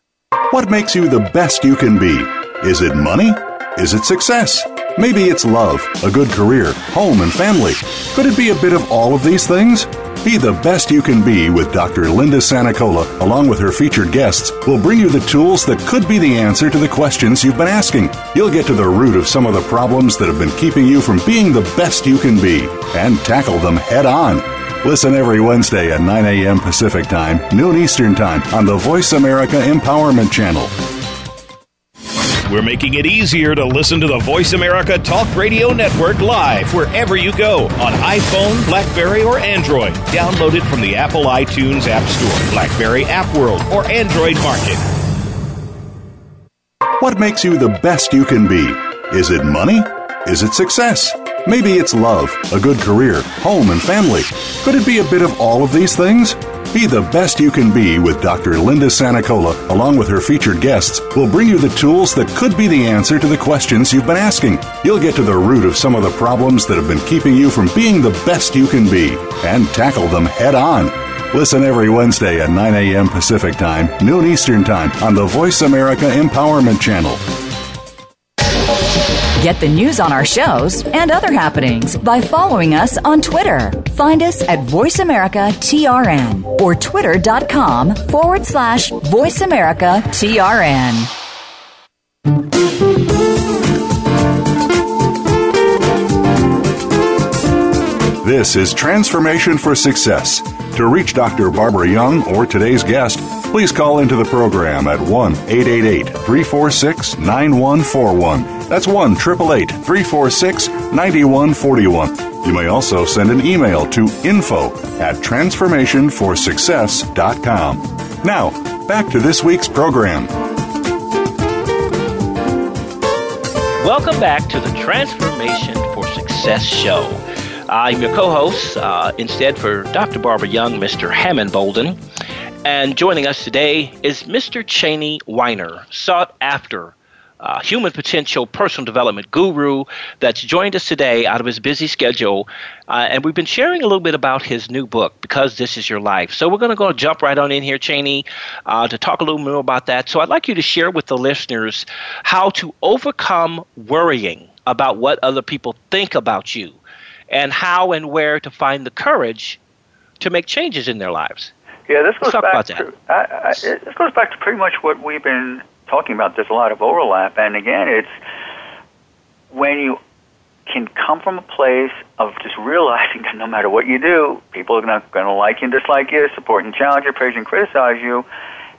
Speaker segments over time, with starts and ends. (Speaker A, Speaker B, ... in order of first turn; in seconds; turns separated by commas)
Speaker A: 0.5-30.7, Speaker B: 32.5-44.8, Speaker A: 47.0-77.2, Speaker C: 79.4-91.1, Speaker A: 98.2-120.3, Speaker D: 123.8-132.0, Speaker D: 132.6-156.8, Speaker D: 157.3-159.6, Speaker D: 160.2-161.5, Speaker E: 161.9-168.1, Speaker D: 162.2-162.8, Speaker E: 169.5-170.0, Speaker E: 170.7-178.3